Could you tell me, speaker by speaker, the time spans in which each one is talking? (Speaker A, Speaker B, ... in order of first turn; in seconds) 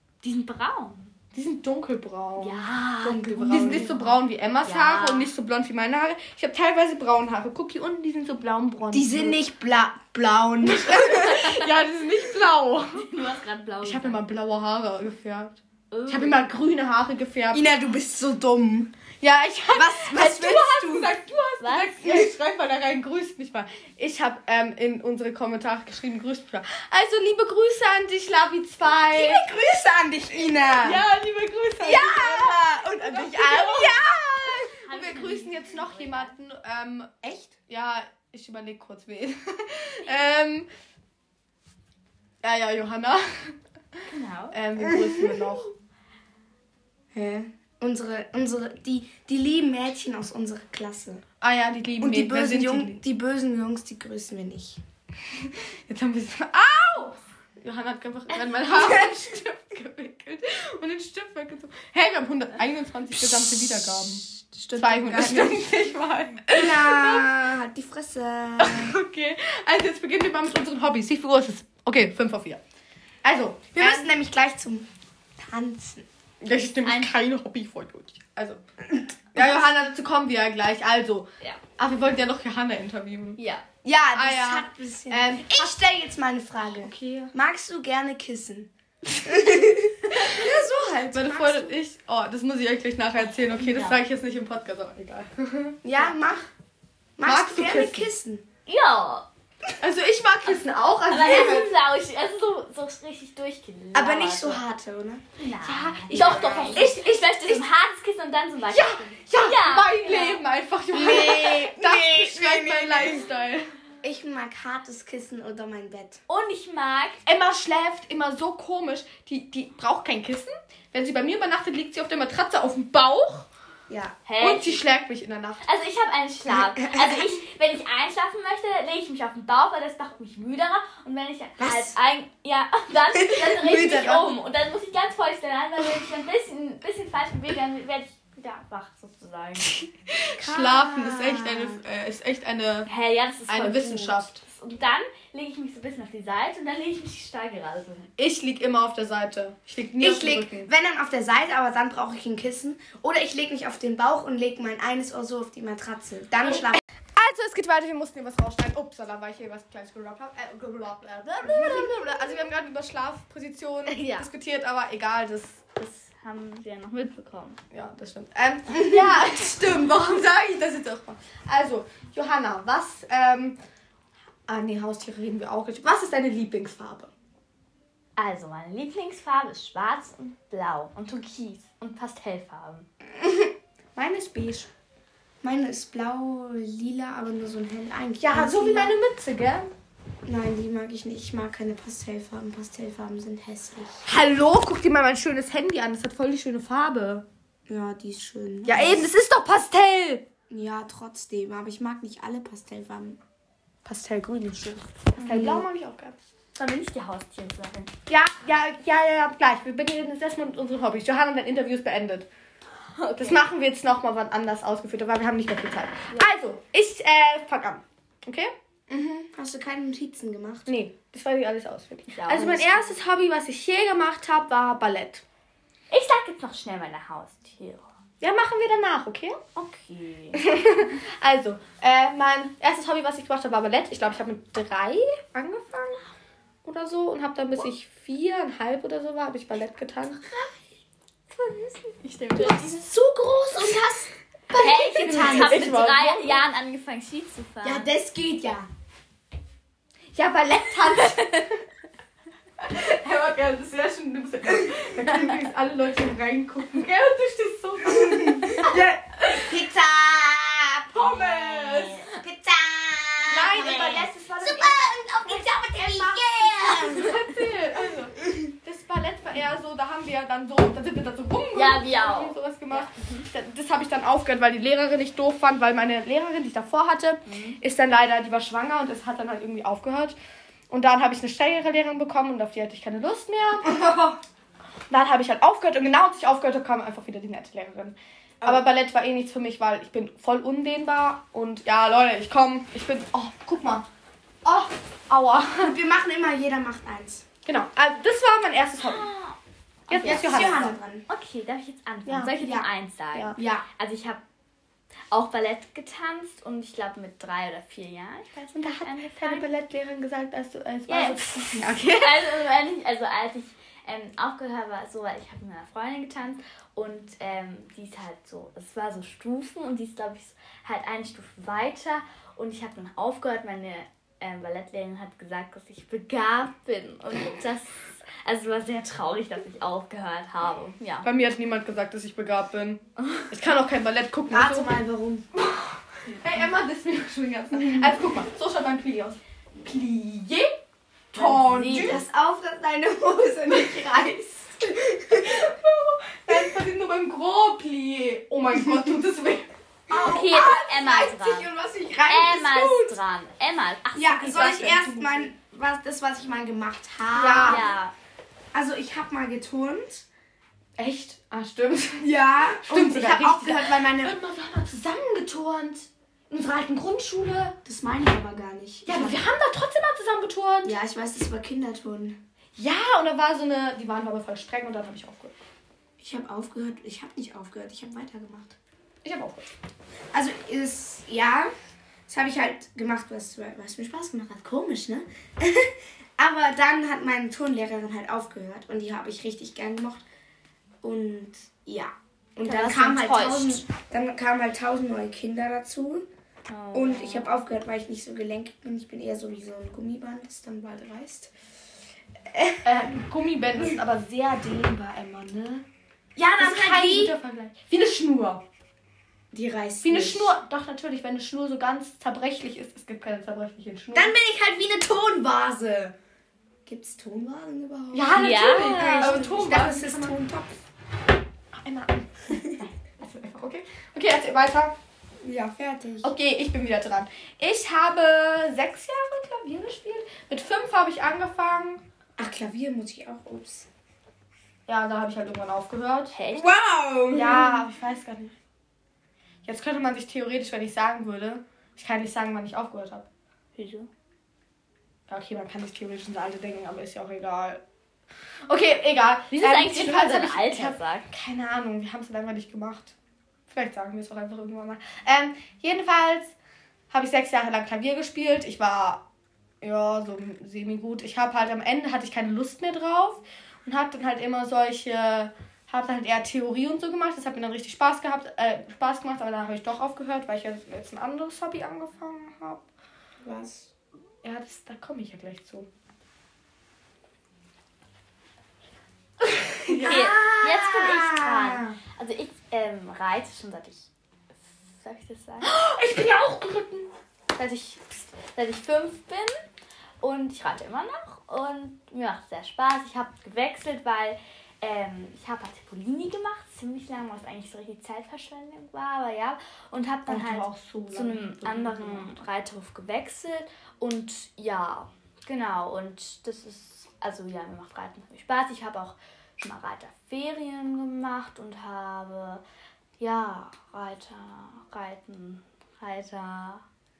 Speaker A: 0.2-1.1, 2.4-5.3, 12.9-14.2, 15.9-16.5, 21.6-22.0, 34.4-36.3, 44.1-44.6, 76.8-77.1, 83.4-83.6, 93.3-94.0, 98.7-99.3, 101.1-104.6, 105.4-110.4, 116.3-117.2, 124.3-124.8, 125.6-139.8, 142.9-148.1, 163.9-164.3, 165.8-167.6, 178.2-182.9, 205.2-205.6, 206.6-207.9, 213.0-213.4, 222.1-223.0, 225.9-227.9, 229.6-230.4, 241.9-242.9, 244.6-247.9, 261.0-262.2, 263.8-264.1, 271.5-273.3, 277.3-277.6, 298.8-304.2, 305.1-309.5, 310.9-331.1, 341.2-342.0, 349.9-351.5, 352.1-354.9, 357.4-357.9, 392.4-393.6, 396.5-397.3, 418.1-419.3, 436.1-436.5, 443.6-443.9, 449.3-451.1, 479.7-483.9, 484.7-485.5, 487.4-489.4, 490.0-512.4, 513.0-516.6
Speaker B: 1.3-9.4, 10.6-13.1, 13.8-17.7, 19.2-29.4, 30.7-40.7, 42.4-43.6, 44.5-45.7, 51.4-53.0, 55.3-67.3, 68.6-72.6, 73.2-74.1, 76.4-83.4, 84.2-85.7, 86.8-87.3, 90.1-90.5, 91.1-95.8, 97.2-98.1, 99.8-101.7, 105.6-107.7, 108.7-113.7, 117.2-123.5, 124.4-125.6, 140.1-142.9, 143.5-144.4, 148.2-150.7, 156.5-165.6, 167.7-173.6, 174.5-177.1, 184.0-184.7, 188.2-189.7, 194.1-197.2, 198.7-200.2, 203.9-206.2, 208.1-212.3, 213.2-219.2, 220.7-225.2, 228.2-229.4, 230.3-236.1, 236.7-240.2, 242.3-246.4, 250.1-251.5, 252.6-259.6, 260.9-262.0, 263.3-280.2, 280.7-283.8, 284.9-293.9, 294.4-295.8, 297.5-299.1, 299.9-300.8, 302.1-302.5, 303.1-303.4, 308.6-312.3, 331.0-334.8, 335.3-340.6, 341.1-342.0, 343.5-343.9, 345.1-349.5, 354.3-355.3, 357.2-357.7, 360.8-362.1, 362.6-367.6, 368.9-370.8, 372.6-375.3, 379.0-379.5, 402.6-405.6, 406.4-408.4, 409.8-414.1, 417.9-420.2, 421.5-424.8, 426.0-431.8, 434.7-436.2, 437.1-438.4, 439.4-443.1, 445.1-447.6, 448.5-452.9, 453.5-456.3, 456.9-459.0, 459.6-472.6, 474.2-475.7, 479.5-481.8, 485.4-486.9, 500.1-502.2
Speaker C: 3.0-3.9, 8.9-11.7, 17.5-18.9, 19.7-21.1, 22.0-22.3, 29.1-31.1, 31.8-34.1, 47.1-51.2, 52.0-54.8, 58.7-59.3, 63.2-65.7, 66.5-69.0, 73.8-74.9, 75.4-76.1, 79.4-79.7, 83.8-91.8, 95.8-96.5, 97.2-98.5, 103.9-105.2, 106.1-106.9, 110.9-113.2, 114.0-116.2, 123.9-124.2, 126.5-127.3, 131.6-131.9, 133.2-134.3, 140.4-141.7, 150.0-156.8, 161.4-162.1, 185.4-189.0, 190.3-194.0, 197.7-199.1, 200.5-203.2, 205.2-205.6, 219.2-220.7, 243.6-244.0, 244.6-245.7, 247.6-248.7, 257.9-267.1, 283.6-284.2, 295.6-297.3, 300.0-301.1, 302.4-302.7, 303.4-303.6, 334.3-335.3, 341.1-345.5, 349.9-353.0, 353.9-357.7, 358.5-360.1, 362.0-364.2, 367.6-369.2, 370.6-372.2, 376.0-378.6, 380.1-381.5, 382.1-390.0, 390.8-396.1, 396.7-401.3, 402.3-402.7, 406.2-407.2, 409.3-410.3, 413.9-415.9, 416.7-420.6, 425.2-426.1, 432.2-433.7, 436.3-437.6, 473.2-473.7